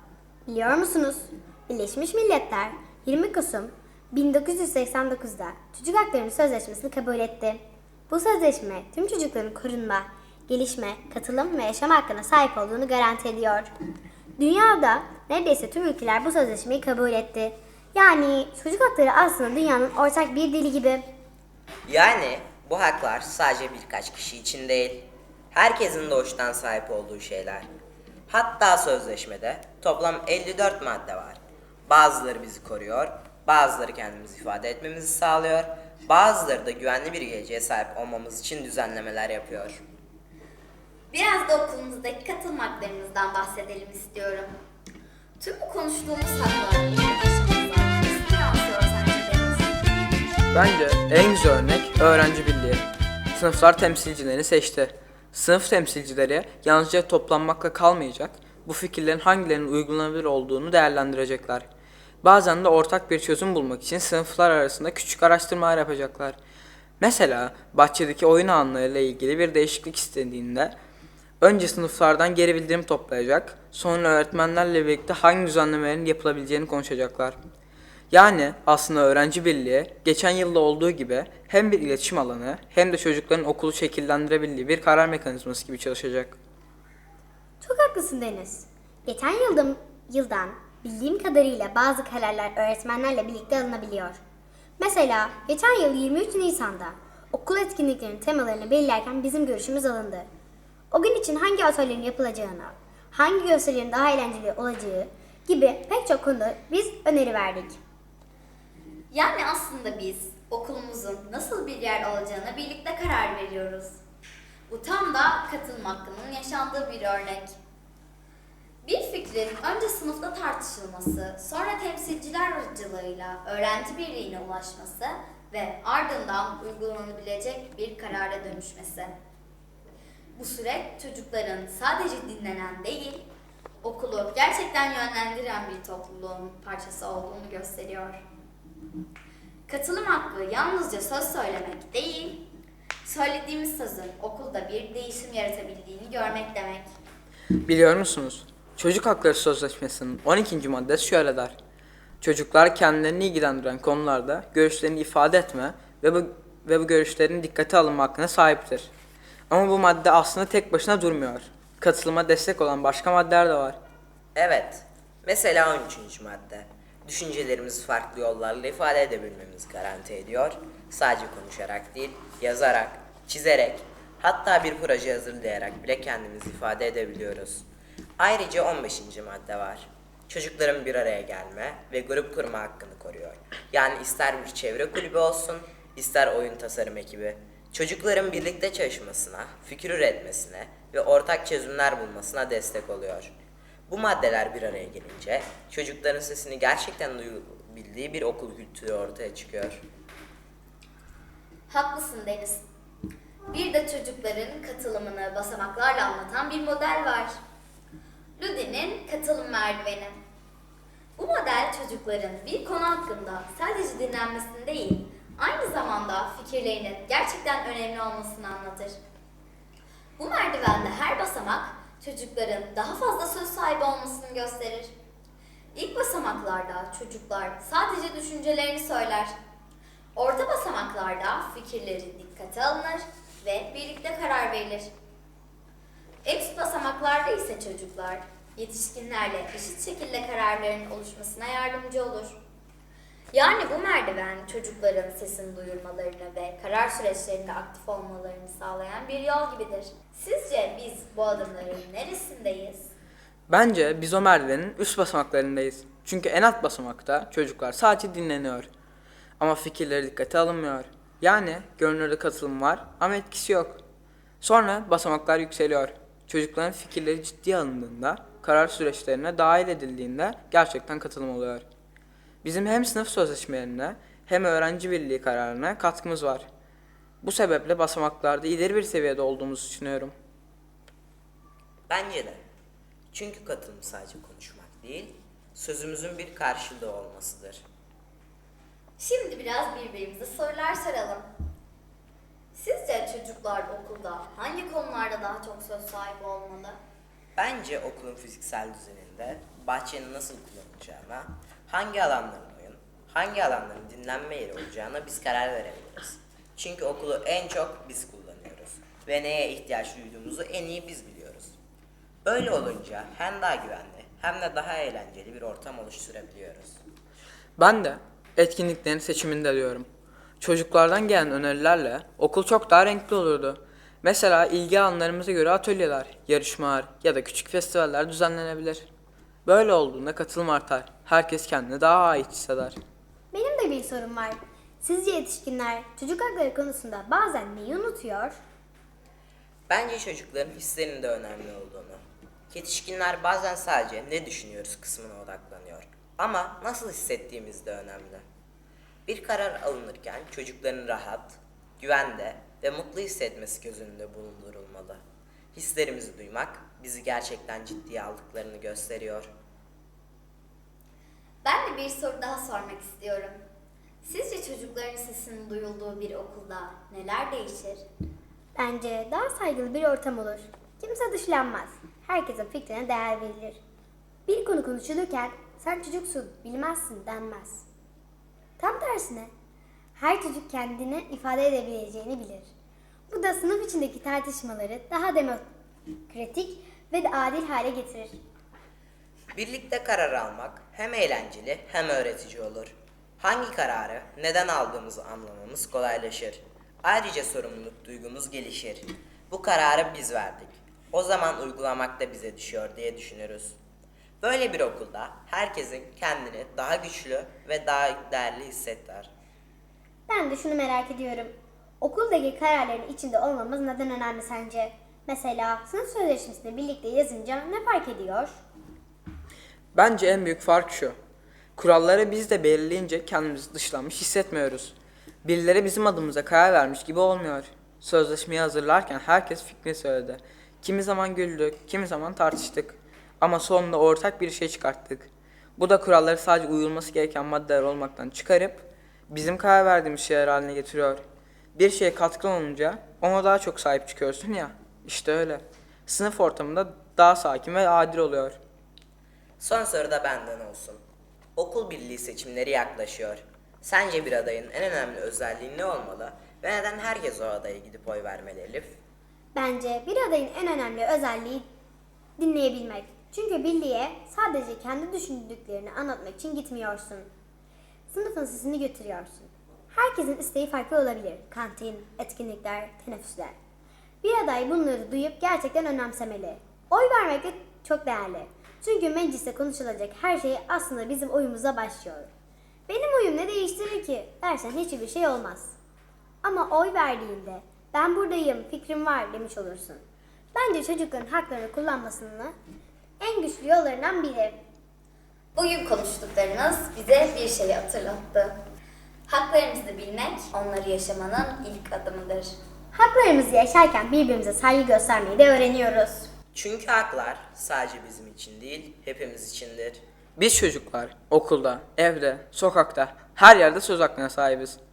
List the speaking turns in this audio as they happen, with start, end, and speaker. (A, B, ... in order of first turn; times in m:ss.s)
0:00.5-0:13.7 A
0:14.4-0:21.0 A
0:21.8-0:27.7 B
0:28.3-0:39.8 B
0:41.1-0:44.5 C
0:45.4-0:49.7 C
0:50.5-1:01.6 D
1:02.2-1:06.4 D
1:07.0-1:10.7 D
1:11.4-1:17.4 D
1:18.1-1:26.4 D
1:27.6-1:34.2 A
1:34.8-1:40.3 A
1:40.9-1:47.8 A
1:49.1-1:54.0 C
1:54.7-1:57.5 C
1:58.8-2:09.1 C
2:10.3-2:13.2 C
2:13.8-2:18.2 C
2:19.7-2:22.4 C
2:23.0-2:26.9 C
2:27.6-2:31.5 D
2:32.2-2:38.9 D
2:39.5-2:43.8 D
2:44.4-2:57.6 B
2:58.2-3:13.3 B
3:13.9-3:19.8 B
3:21.7-3:22.6 C
3:23.5-3:27.3 C
3:28.4-3:30.2 C
3:31.2-3:38.9 C
3:40.2-3:44.9 C
3:45.7-3:49.3 C
3:50.1-3:54.9 C
3:56.2-4:02.4 C
4:03.3-4:12.9 C
4:13.5-4:18.7 D
4:19.4-4:23.8 D
4:24.4-4:31.6 D
4:32.4-4:36.4 D
4:37.2-4:40.1 D
4:41.9-4:42.4 B
4:43.1-4:47.6 B
4:49.0-4:51.2 C
4:52.5-4:56.8 C
4:57.4-5:11.6 B
5:12.2-5:16.8 B
5:17.6-5:19.9 D
5:20.4-5:28.9 D
5:29.4-5:32.8 D
5:33.3-5:38.4 A
5:39.7-5:42.0 B
5:42.5-5:48.2 B
5:49.0-5:55.0 B
5:55.5-5:59.3 B
6:01.4-6:03.4 C
6:04.0-6:07.8 C
6:08.6-6:13.6 A
6:14.2-6:17.6 A
6:18.6-6:19.3 A
6:20.0-6:22.5 A
6:23.1-6:25.4 A
6:26.1-6:28.1 A
6:29.3-6:43.6 B
6:44.2-6:49.1 B
6:50.1-6:58.4 A
6:59.7-7:01.0 D
7:01.6-7:21.0 D
7:21.5-7:28.4 D
7:29.4-7:30.8 B
7:31.4-7:38.8 B
7:39.3-7:41.4 A
7:42.2-7:47.1 A
7:47.9-7:53.4 A
7:54.0-8:02.1 A
8:02.7-8:05.6 A
8:06.2-8:12.3 A
8:13.0-8:14.4 A
8:15.3-8:18.3 C
8:19.1-8:22.3 C
8:22.7-8:26.1 A
8:26.3-8:29.8 B
8:30.2-8:34.6 D